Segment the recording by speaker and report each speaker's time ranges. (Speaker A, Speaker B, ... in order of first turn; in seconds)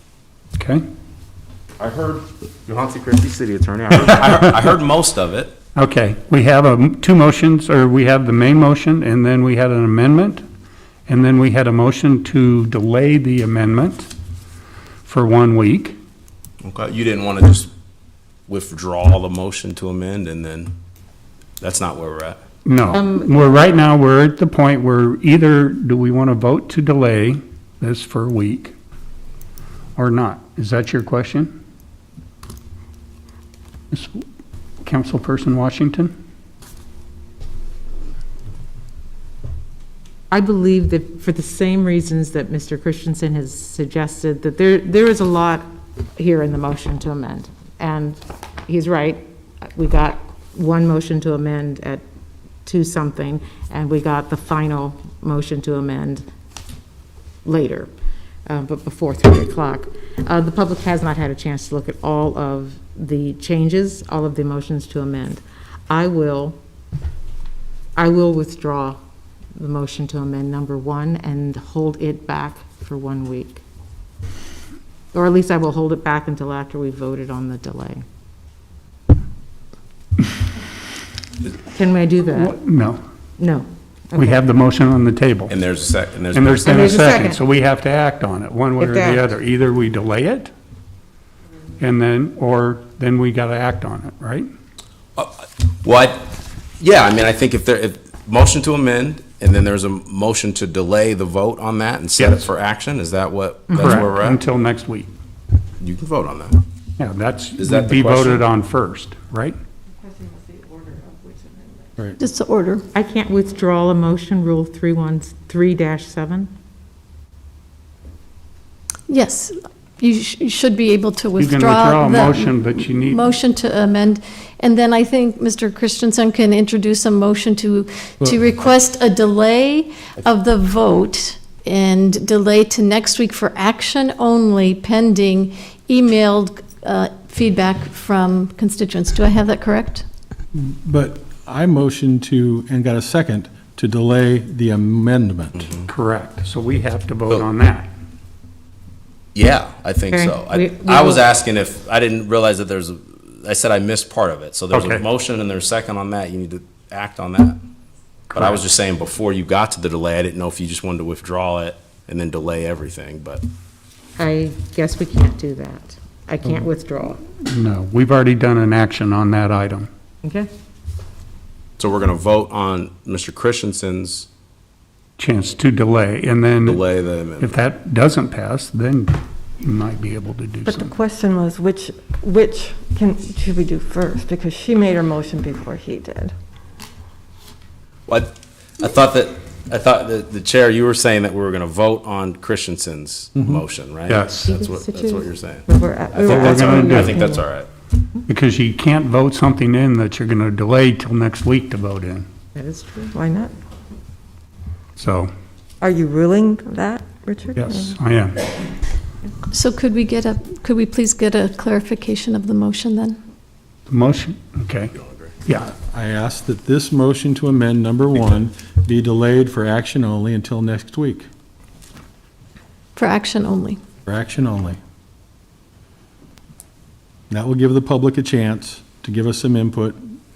Speaker A: 0.6-0.8, 4.0-4.5, 5.7-10.4, 11.1-14.1, 15.0-16.0, 22.6-28.8, 29.9-31.5, 33.9-34.2, 34.8-36.1, 82.3-83.0, 84.1-85.5, 86.3-90.5, 91.8-94.5, 102.2-102.5, 103.8-105.1, 107.0-109.6, 121.4-123.2, 145.8-147.9, 154.7-155.0, 167.4-169.9, 175.2-176.8, 177.4-180.9, 194.1-194.5, 196.1-197.2, 198.3-202.3, 205.0-205.3, 207.5-208.5, 213.9-215.7
Speaker B: 1.8-5.5, 16.6-17.7, 18.5-20.7, 21.6-22.4, 85.5-87.0, 95.2-104.4, 105.8-106.6, 107.6-108.4, 149.3-157.6, 158.3-163.4, 171.8-174.3, 176.6-177.5, 188.1-197.7
Speaker C: 22.9-23.3, 40.3-52.0, 52.6-56.2, 57.4-57.9, 58.5-66.6, 68.0-69.0, 69.5-73.6, 75.1-78.0, 81.6-82.5, 83.4-84.4, 86.6-87.4, 88.8-89.2, 112.9-116.5, 150.1-151.2, 164.2-167.2, 170.2-170.5, 194.5-195.0, 202.5-203.1
Speaker D: 112.2-112.8, 119.1-140.0, 209.5-213.2, 222.9-223.8
Speaker E: 140.5-145.7, 215.7-221.3, 224.1-224.8, 227.3-230.0
Speaker F: 180.7-186.3, 195.7-197.3, 203.1-203.5, 205.8-207.9